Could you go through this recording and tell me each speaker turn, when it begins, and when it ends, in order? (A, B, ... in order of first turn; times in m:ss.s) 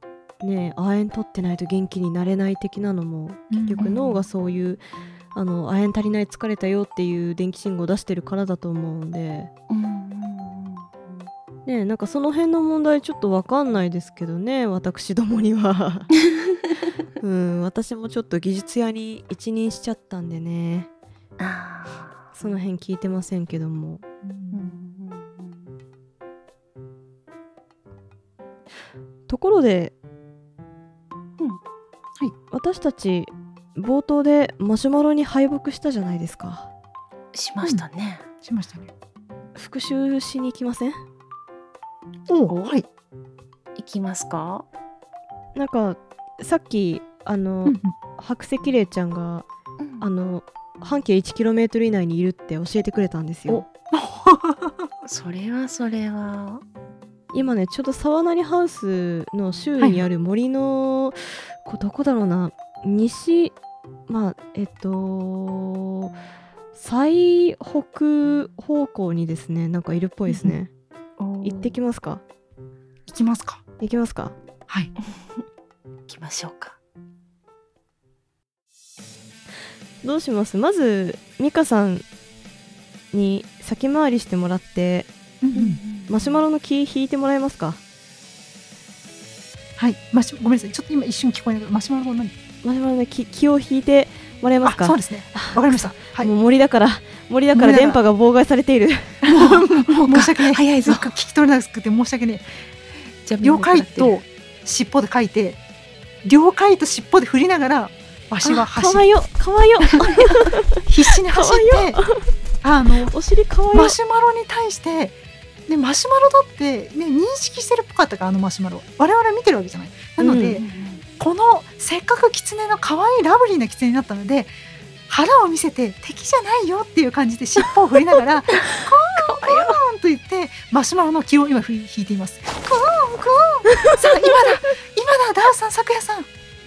0:00.4-0:04.8 A
0:03.5-0:04.0 B
0:03.8-0:04.2 C
0:05.3-0:09.5 A
0:09.7-0:11.3 C
0:11.6-0:16.1 A
0:17.2-0:20.9 A
0:21.4-0:22.6 C
0:22.3-0:24.0 A
0:24.2-0:24.7 B
0:24.5-0:25.8 C
0:29.3-0:29.9 A
0:32.5-0:36.7 A
0:37.3-0:38.2 C
0:38.4-0:38.9 B
0:39.6-0:41.0 A
0:42.3-0:42.9 B
0:42.5-0:42.7 C
0:43.8-0:44.6 C
0:45.5-0:49.4 A
0:47.6-0:48.0 B
0:49.8-0:50.1 C
0:50.0-0:53.6 A
0:53.9-0:54.9 B
0:55.0-0:56.6 C
0:57.3-1:03.5 A
0:59.8-1:00.0 B
1:04.1-1:06.1 A
1:06.7-1:10.7 A
1:11.2-1:11.8 C
1:11.4-1:12.2 A
1:13.1-1:13.6 B
1:13.8-1:14.3 A
1:15.0-1:15.4 C
1:16.1-1:16.8 C
1:20.0-1:22.0 A
1:23.1-1:25.1 A
1:25.4-1:25.8 B
1:25.5-1:26.4 C
1:26.1-1:27.8 A
1:29.8-1:32.4 B
1:32.6-1:39.2 A
1:34.6-1:36.3 B
1:37.5-1:38.0 B
1:39.2-1:42.4 B
1:39.3-1:41.1 C
1:43.2-1:44.2 C
1:43.4-1:45.6 B
1:46.2-1:49.1 B
1:48.7-1:52.2 A
1:50.2-1:52.0 B
1:52.6-1:53.1 B
1:53.1-1:54.0 A
1:53.7-2:00.6 B
2:00.2-2:00.6 A
2:00.6-2:01.0 C
2:01.2-2:04.5 B
2:05.1-2:16.3 B
2:08.7-2:09.8 C